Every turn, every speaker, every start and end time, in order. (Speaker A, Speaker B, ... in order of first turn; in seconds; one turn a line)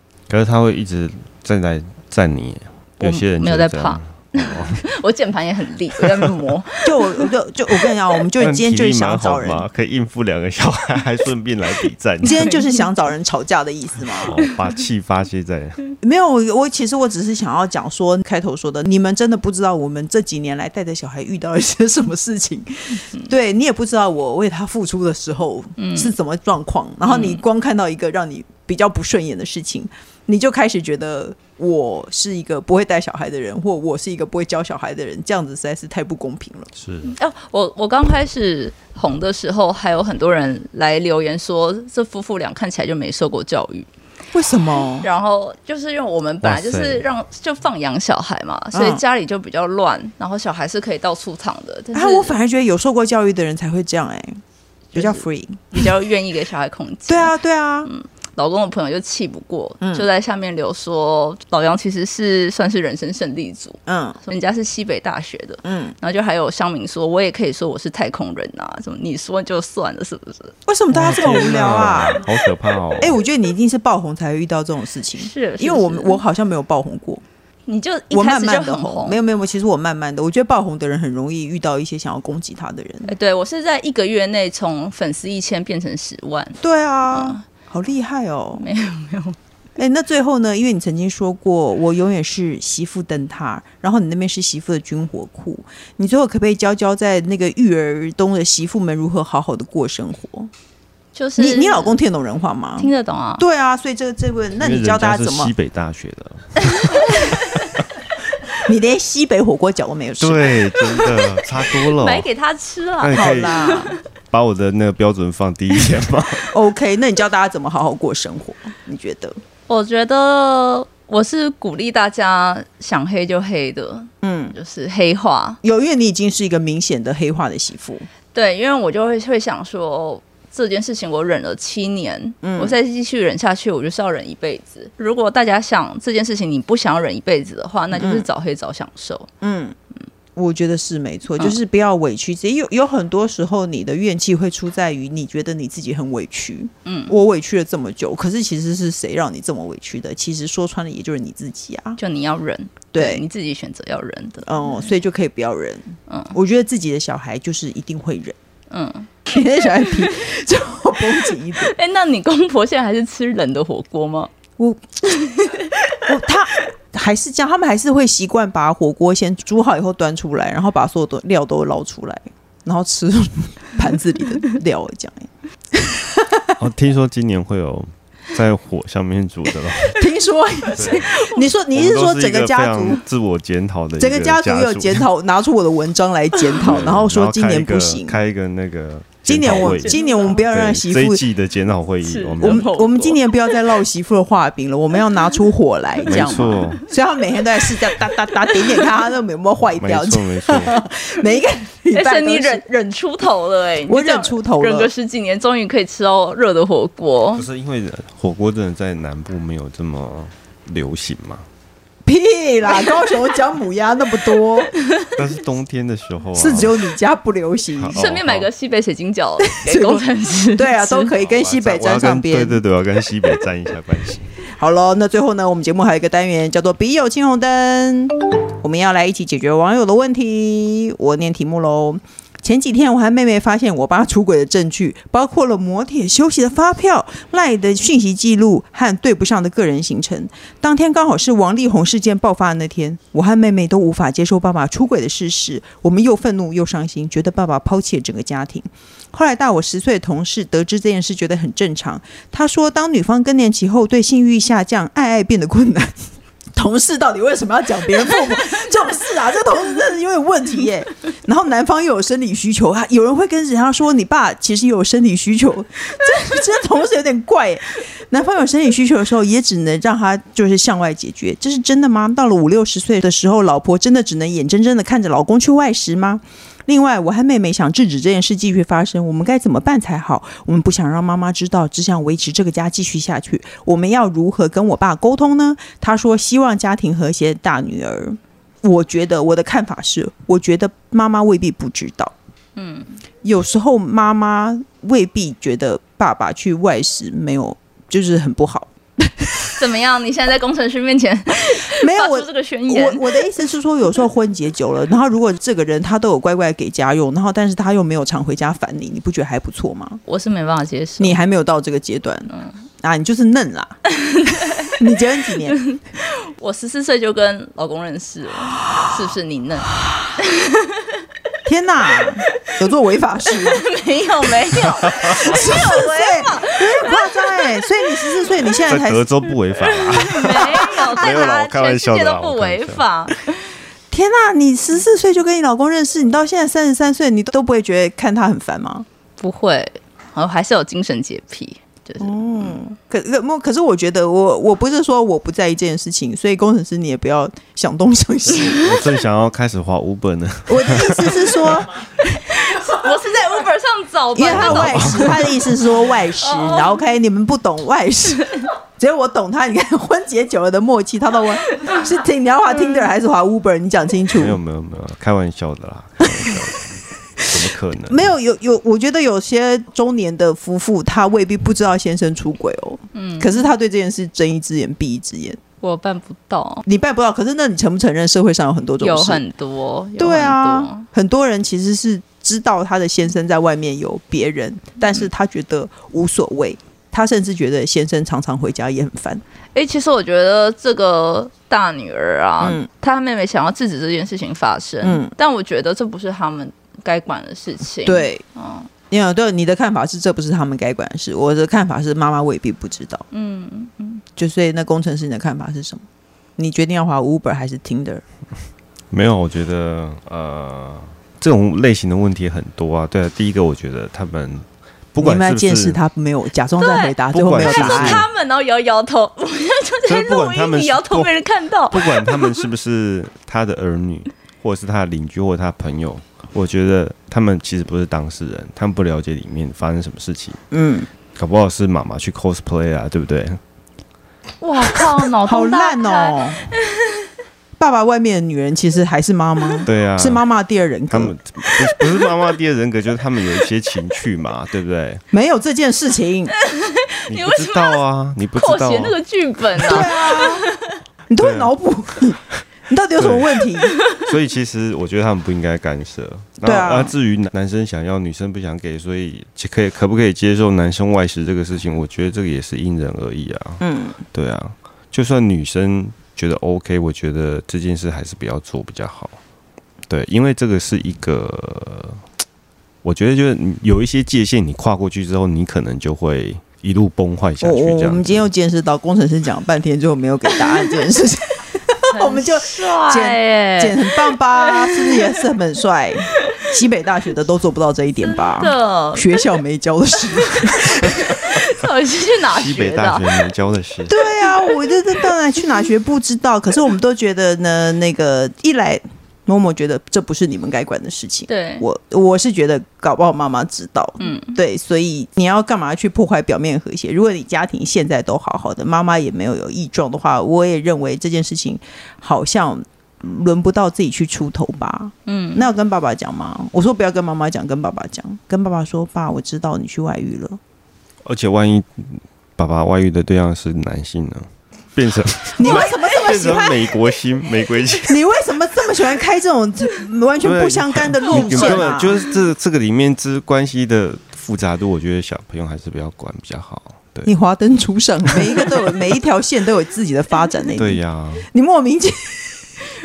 Speaker A: 0.3-4.8
Speaker B: 3.0-7.3
Speaker A: 6.0-6.3
Speaker C: 6.8-9.7
Speaker A: 8.4-12.5
Speaker C: 12.2-14.3
Speaker A: 14.2-15.8
Speaker C: 16.0-36.7
Speaker B: 25.8-26.1
Speaker B: 27.1-27.4
Speaker A: 36.8-37.1
Speaker B: 37.1-43.9
Speaker C: 44.3-45.1
Speaker B: 45.0-52.4
Speaker A: 46.4-47.0
Speaker C: 48.7-49.0
Speaker C: 51.9-54.4
Speaker B: 54.9-57.3
Speaker C: 55.0-55.9
Speaker C: 57.1-57.9
Speaker B: 57.9-70.5
Speaker C: 59.8-60.1
Speaker C: 63.9-64.2
Speaker C: 65.7-65.9
Speaker C: 70.7-72.3
Speaker A: 70.9-73.2
Speaker C: 73.0-77.2
Speaker B: 75.2-76.2
Speaker B: 77.7-79.2
Speaker C: 78.1-83.1
Speaker B: 83.1-86.6
Speaker C: 86.6-88.7
Speaker B: 87.1-87.4
Speaker B: 88.6-89.4
Speaker C: 89.8-100.5
Speaker B: 101.2-102.0
Speaker C: 101.4-105.5
Speaker B: 102.8-103.4
Speaker A: 104.6-107.8
Speaker C: 108.6-110.8
Speaker A: 110.2-112.3
Speaker B: 111.0-114.0
Speaker A: 113.0-113.8
Speaker C: 113.1-114.0
Speaker A: 114.3-116.5
Speaker C: 116.5-119.4
Speaker B: 119.7-125.6
Speaker C: 124.2-124.5
Speaker C: 125.6-128.1
Speaker B: 128.3-139.3
Speaker C: 132.4-132.7
Speaker C: 137.9-138.3
Speaker C: 139.4-139.8
Speaker C: 140.4-152.0
Speaker B: 146.8-147.2
Speaker B: 152.0-154.7
Speaker C: 152.9-153.2
Speaker C: 154.4-158.3
Speaker B: 156.1-156.3
Speaker B: 158.7-159.1
Speaker C: 159.3-161.7
Speaker B: 161.4-164.3
Speaker C: 164.6-165.3
Speaker B: 165.4-165.9
Speaker C: 166.0-176.6
Speaker A: 176.6-180.0
Speaker C: 179.9-183.0
Speaker A: 180.7-181.1
Speaker A: 181.7-185.1
Speaker C: 184.0-188.2
Speaker A: 186.6-192.7
Speaker C: 189.2-191.2
Speaker B: 189.4-190.4
Speaker B: 192.0-193.5
Speaker C: 192.4-202.6
Speaker A: 196.1-196.8
Speaker B: 196.1-196.8
Speaker A: 199.8-200.7
Speaker B: 201.9-207.5
Speaker C: 203.9-204.9
Speaker A: 207.3-211.5
Speaker C: 212.1-214.7
Speaker B: 214.9-215.1
Speaker A: 215.1-216.7
Speaker C: 216.3-218.1
Speaker A: 217.8-218.5
Speaker B: 217.9-221.1
Speaker C: 219.4-220.0
Speaker C: 220.6-222.6
Speaker A: 221.1-224.3
Speaker C: 224.6-292.1
Speaker B: 292.6-293.0
Speaker C: 293.2-299.6
Speaker B: 299.6-303.4
Speaker C: 301.7-310.0
Speaker B: 310.1-311.2
Speaker C: 311.0-312.3
Speaker C: 312.8-313.8
Speaker B: 313.9-314.8
Speaker C: 314.6-315.6
Speaker B: 315.5-321.0
Speaker C: 321.5-323.6
Speaker B: 323.3-328.2
Speaker A: 324.6-325.4
Speaker C: 325.1-329.1
Speaker A: 328.7-333.2
Speaker B: 329.5-333.3
Speaker C: 330.2-331.0
Speaker C: 333.9-338.9
Speaker B: 339.2-342.6
Speaker C: 342.0-348.7
Speaker A: 348.3-351.3
Speaker C: 350.5-352.2
Speaker B: 352.2-356.8
Speaker C: 354.1-364.4
Speaker A: 354.2-355.2
Speaker A: 364.1-368.1
Speaker C: 366.0-366.4
Speaker C: 367.2-375.4
Speaker B: 372.9-373.4
Speaker B: 375.6-376.6
Speaker C: 376.7-379.2
Speaker B: 378.8-380.9
Speaker C: 380.0-389.2
Speaker B: 389.5-398.7
Speaker C: 392.4-392.7
Speaker C: 394.8-395.1
Speaker C: 397.9-398.2
Speaker C: 398.9-403.0
Speaker B: 403.1-404.0
Speaker C: 404.2-405.8
Speaker C: 406.4-408.0
Speaker A: 408.9-415.8
Speaker C: 415.0-418.1
Speaker B: 416.6-422.5
Speaker A: 417.1-418.1
Speaker A: 419.9-421.1
Speaker A: 421.7-430.4
Speaker C: 430.5-430.9
Speaker A: 431.1-433.4
Speaker B: 434.4-437.1
Speaker C: 435.3-436.4
Speaker C: 437.6-441.2
Speaker A: 439.6-440.2
Speaker A: 440.9-445.0
Speaker B: 441.6-442.2
Speaker C: 445.1-446.3
Speaker B: 446.3-447.8
Speaker A: 447.1-449.0
Speaker B: 448.4-450.8
Speaker C: 449.6-450.5
Speaker C: 451.1-453.8
Speaker A: 451.2-451.5
Speaker A: 453.0-469.2
Speaker B: 453.6-454.1
Speaker C: 456.4-456.9
Speaker C: 463.6-464.0
Speaker A: 469.9-472.0
Speaker A: 472.8-478.3
Speaker C: 477.4-491.2
Speaker B: 481.9-485.3
Speaker B: 488.1-489.3
Speaker B: 490.2-493.2
Speaker A: 492.3-494.0
Speaker C: 493.9-520.4
Speaker B: 501.3-501.7
Speaker B: 504.0-504.4
Speaker B: 515.1-515.5
Speaker A: 521.0-528.0
Speaker C: 525.4-526.8
Speaker B: 525.4-526.4
Speaker C: 527.9-531.9
Speaker A: 530.2-537.1
Speaker B: 531.1-532.0
Speaker C: 537.1-542.5
Speaker A: 540.6-541.3